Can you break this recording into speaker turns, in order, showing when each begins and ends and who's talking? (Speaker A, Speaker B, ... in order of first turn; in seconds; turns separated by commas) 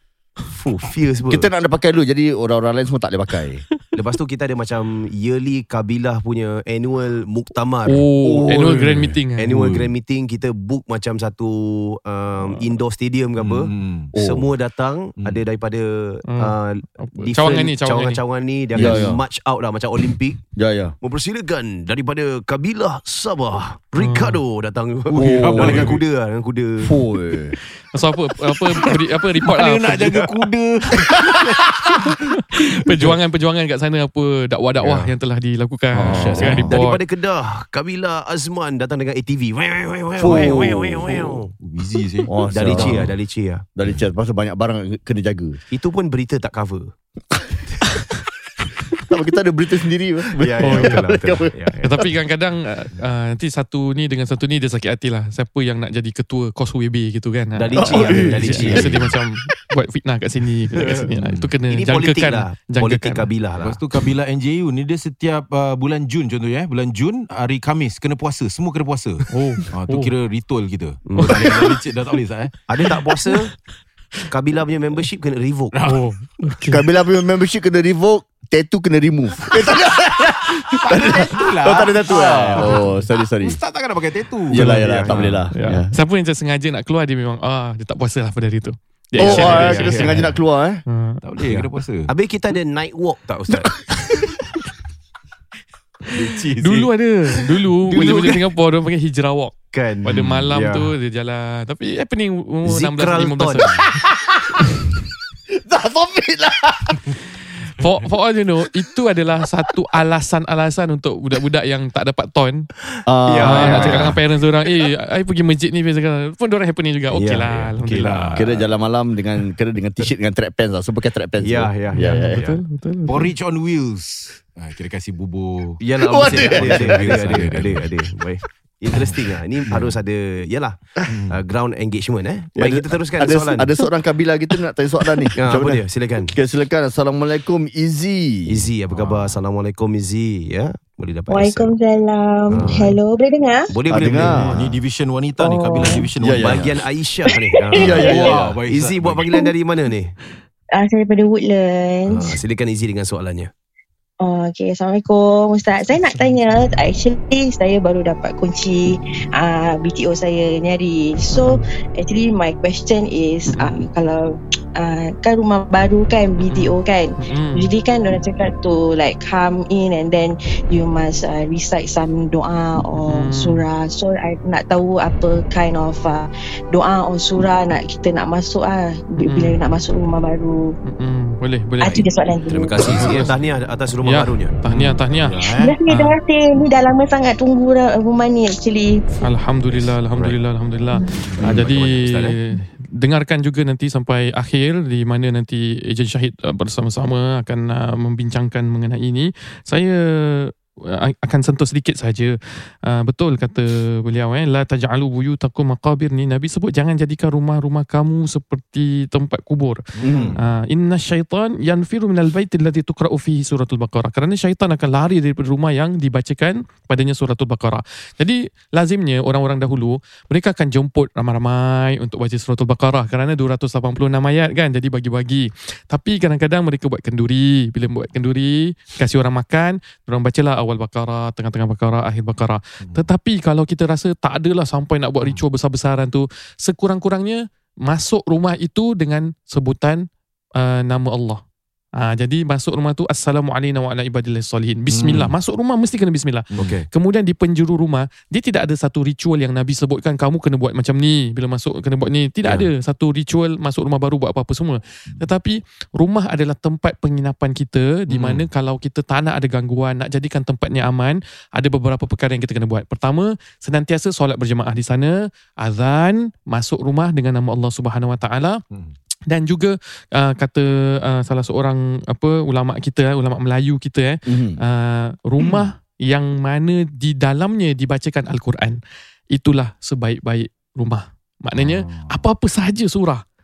Speaker A: 0.5-1.5, Speaker B: 1.3-3.6, Speaker A: 3.9-8.6, Speaker C: 7.9-9.5, Speaker B: 8.2-8.9, Speaker D: 8.9-9.9, Speaker A: 9.4-20.4, Speaker D: 13.4-14.1, Speaker B: 14.2-14.5, Speaker C: 16.3-18.2, Speaker B: 18.8-19.2, Speaker B: 20.6-20.9, Speaker A: 21.0-26.9, Speaker C: 24.0-24.4, Speaker D: 25.1-26.0, Speaker B: 25.1-26.0, Speaker B: 26.8-27.6, Speaker C: 27.9-30.2, Speaker D: 29.4-31.8, Speaker C: 32.5-37.0, Speaker A: 34.8-35.1, Speaker B: 36.0-36.6, Speaker D: 36.0-36.8, Speaker A: 36.4-41.5, Speaker B: 40.2-41.2, Speaker D: 40.2-40.6, Speaker D: 41.6-43.1, Speaker B: 42.3-43.1, Speaker A: 42.5-43.6, Speaker B: 43.8-45.6, Speaker A: 45.7-46.9, Speaker B: 49.0-51.9, Speaker A: 50.4-51.8, Speaker C: 50.6-51.1, Speaker C: 51.8-63.3, Speaker A: 57.6-59.0, Speaker B: 57.8-59.0, Speaker D: 58.5-59.0, Speaker D: 60.9-61.5, Speaker A: 61.7-63.8, Speaker D: 63.6-72.6, Speaker C: 69.3-70.1, Speaker A: 71.1-71.8, Speaker A: 72.7-73.5, Speaker A: 74.3-75.8, Speaker D: 75.7-76.1, Speaker C: 75.9-76.8, Speaker B: 76.7-83.6, Speaker D: 80.5-85.4, Speaker A: 82.3-82.7, Speaker B: 84.5-85.9, Speaker A: 84.5-85.4, Speaker C: 85.5-90.3, Speaker B: 89.2-90.8, Speaker A: 89.2-90.3, Speaker D: 89.3-89.7, Speaker C: 90.9-91.2, Speaker D: 91.2-92.1, Speaker A: 91.5-94.2, Speaker D: 96.2-96.9, Speaker C: 96.6-99.5, Speaker A: 97.9-98.5, Speaker A: 99.7-100.9, Speaker D: 100.0-100.5, Speaker C: 100.1-103.7, Speaker A: 102.7-103.8, Speaker B: 103.8-104.8, Speaker B: 105.5-107.2, Speaker C: 107.7-112.7, Speaker B: 108.6-109.0, Speaker B: 113.1-114.2, Speaker A: 113.3-114.2, Speaker C: 113.4-118.6, Speaker A: 117.2-117.7, Speaker D: 117.8-118.5, Speaker B: 117.9-122.4, Speaker A: 121.4-122.6, Speaker C: 122.0-123.3, Speaker D: 123.1-127.9, Speaker A: 125.8-133.7, Speaker B: 126.0-127.5, Speaker D: 128.9-129.2, Speaker D: 131.1-131.4, Speaker B: 132.6-138.7, Speaker A: 135.4-136.3, Speaker A: 138.5-141.7, Speaker D: 138.9-139.4, Speaker E: 141.3-143.7, Speaker A: 142.5-143.0, Speaker A: 143.7-144.6, Speaker B: 143.9-144.8, Speaker D: 144.1-146.8, Speaker E: 145.4-146.1, Speaker B: 146.2-146.7, Speaker A: 146.3-150.2, Speaker B: 147.8-148.6, Speaker D: 147.8-149.2, Speaker E: 147.9-148.3, Speaker E: 150.8-152.4, Speaker A: 152.1-153.5, Speaker E: 154.2-180.7, Speaker C: 161.3-161.7, Speaker C: 163.5-163.8, Speaker C: 166.5-167.7, Speaker C: 173.1-173.6, Speaker C: 179.2-179.6, Speaker C: 180.9-182.1, Speaker E: 181.8-183.3, Speaker A: 181.9-184.5, Speaker C: 182.9-183.3, Speaker C: 184.0-186.2, Speaker D: 184.7-185.8, Speaker E: 185.5-189.0, Speaker C: 189.2-209.8, Speaker A: 191.4-192.3, Speaker D: 210.0-210.4, Speaker B: 210.0-210.4, Speaker C: 210.4-240.1, Speaker D: 232.8-233.1, Speaker C: 240.6-241.4, Speaker C: 242.0-268.6, Speaker D: 244.9-245.3, Speaker D: 246.5-246.8, Speaker A: 246.6-246.9, Speaker D: 258.1-258.5, Speaker C: 269.3-278.8, Speaker B: 274.3-274.6, Speaker C: 279.3-283.2, Speaker D: 281.6-282.1